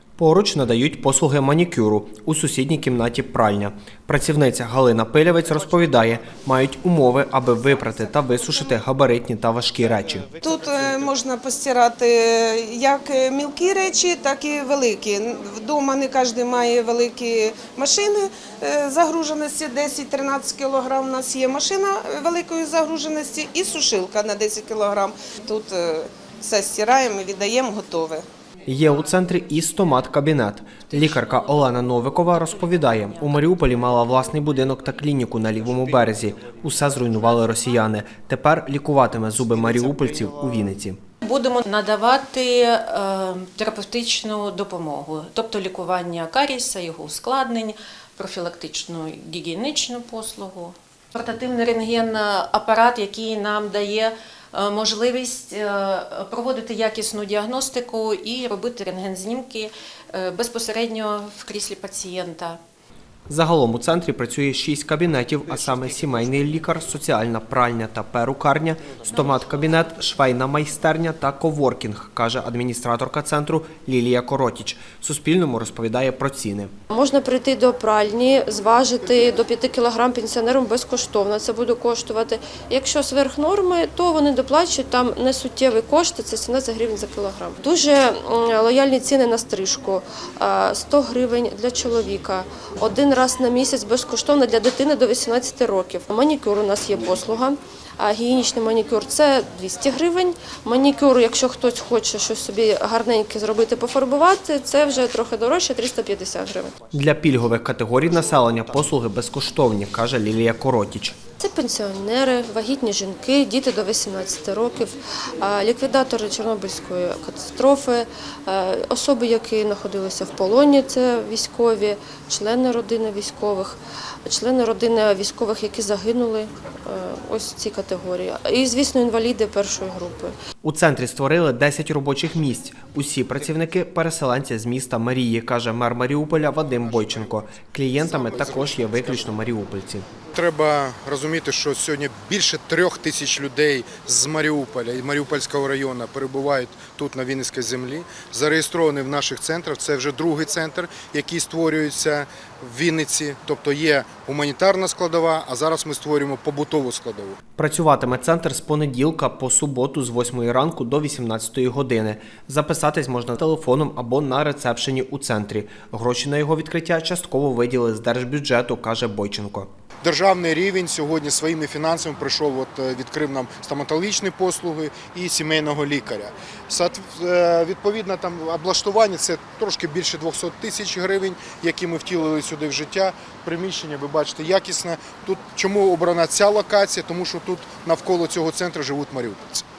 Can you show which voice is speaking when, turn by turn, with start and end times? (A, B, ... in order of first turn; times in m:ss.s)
0:00.2-0:10.3 A
0:10.4-0:28.2 B
0:28.7-0:41.0 A
0:30.9-0:33.8 C
0:41.2-1:02.6 C
1:03.3-1:16.7 A
1:09.2-1:09.6 C
1:16.9-1:46.7 D
1:46.9-1:51.2 A
1:51.4-2:10.3 D
2:10.6-2:20.1 A
2:16.9-2:17.3 E
2:18.0-2:19.3 E
2:20.3-2:37.4 E
2:37.6-2:49.7 A
2:50.0-3:09.6 E